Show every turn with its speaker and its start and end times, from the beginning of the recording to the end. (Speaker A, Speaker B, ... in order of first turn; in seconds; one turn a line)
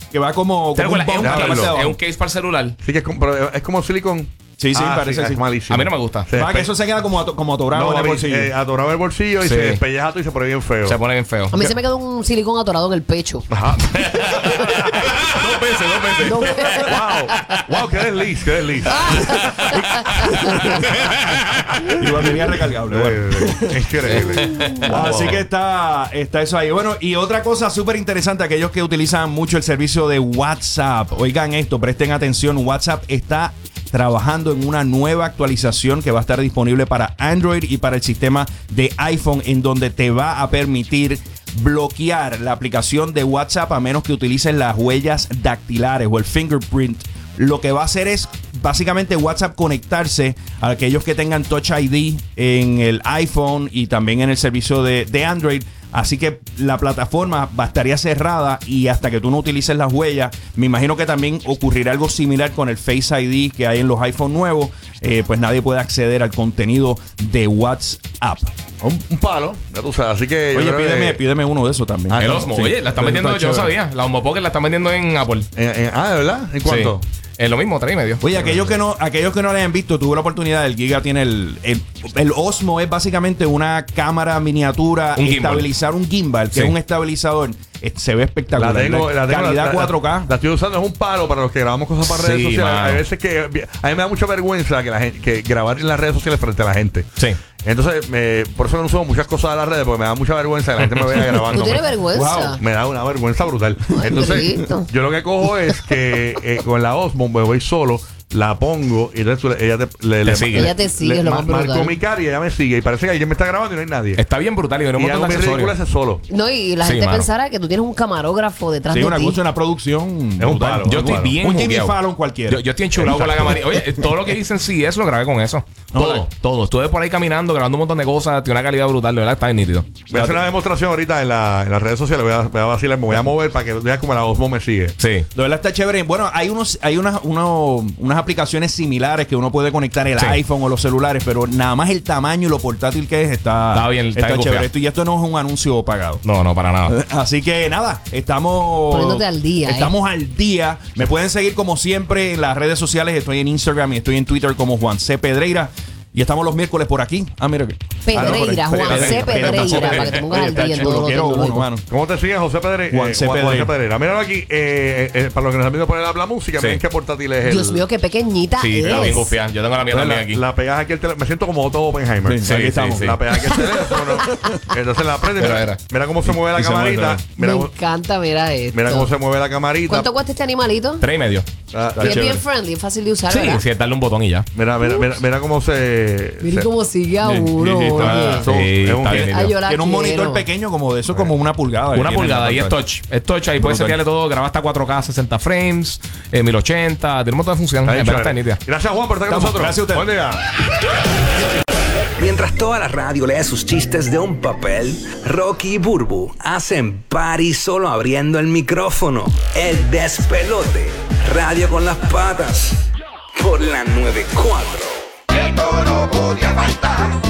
Speaker A: 0.1-2.0
Speaker B: 0.7-2.8
Speaker C: 1.2-1.7
Speaker C: 2.8-6.7
Speaker A: 4.6-5.4
Speaker B: 5.7-6.3
Speaker A: 6.3-8.5
Speaker C: 7.7-11.0
Speaker B: 9.4-9.8
Speaker B: 10.8-11.7
Speaker D: 11.5-13.5
Speaker C: 13.5-13.8
Speaker B: 14.0-16.9
Speaker D: 14.3-14.9
Speaker D: 16.2-17.6
Speaker C: 16.8-19.4
Speaker D: 18.9-20.8
Speaker B: 19.2-22.0
Speaker A: 21.9-23.5
Speaker C: 22.9-25.4
Speaker B: 24.1-25.0
Speaker A: 24.8-68.5
Speaker C: 68.8-71.2
Speaker A: 70.5-73.6
Speaker C: 72.1-72.5
Speaker B: 72.2-75.5
Speaker C: 75.6-77.0
Speaker B: 76.6-78.5
Speaker A: 78.2-90.3
Speaker B: 85.2-85.7
Speaker C: 88.6-97.1
Speaker B: 92.0-93.0
Speaker C: 97.6-101.9
Speaker D: 101.5-102.6
Speaker A: 102.1-102.6
Speaker C: 102.6-114.2
Speaker D: 103.9-104.9
Speaker B: 110.2-110.7
Speaker D: 110.5-112.0
Speaker B: 114.2-115.7
Speaker C: 115.0-116.2
Speaker D: 116.3-119.4
Speaker B: 116.8-117.3
Speaker A: 118.9-123.5
Speaker C: 120.4-121.3
Speaker B: 120.8-122.0
Speaker B: 122.5-129.9
Speaker A: 125.9-126.2
Speaker C: 130.1-134.9
Speaker A: 130.1-130.4
Speaker B: 135.0-135.2
Speaker A: 135.3-146.2
Speaker B: 143.7-144.7
Speaker B: 146.2-146.9
Speaker A: 146.9-161.9
Speaker D: 148.9-149.9
Speaker D: 158.0-161.7
Speaker C: 158.1-159.7
Speaker B: 158.8-160.8
Speaker C: 161.9-167.8
Speaker A: 162.9-163.7
Speaker B: 166.6-166.8
Speaker D: 167.4-169.3
Speaker B: 168.6-170.4
Speaker C: 169.9-172.4
Speaker A: 172.2-173.2
Speaker B: 172.4-173.3
Speaker C: 173.0-177.7
Speaker D: 173.4-174.6
Speaker B: 175.4-175.8
Speaker A: 176.2-177.2
Speaker D: 177.4-179.1
Speaker C: 178.7-180.1
Speaker D: 179.9-181.1
Speaker B: 181.0-181.5
Speaker C: 181.7-182.4
Speaker A: 181.9-182.4
Speaker D: 182.0-183.6
Speaker B: 183.3-184.5
Speaker C: 184.5-186.7
Speaker D: 186.4-188.5
Speaker C: 187.2-187.5
Speaker A: 187.6-192.8
Speaker B: 187.9-189.6
Speaker C: 188.4-189.3
Speaker D: 189.3-190.5
Speaker B: 191.9-198.6
Speaker A: 193.6-194.0
Speaker C: 197.9-200.4
Speaker A: 199.3-200.1
Speaker E: 202.2-212.8
Speaker E: 213.3-215.7
Speaker E: 216.3-217.0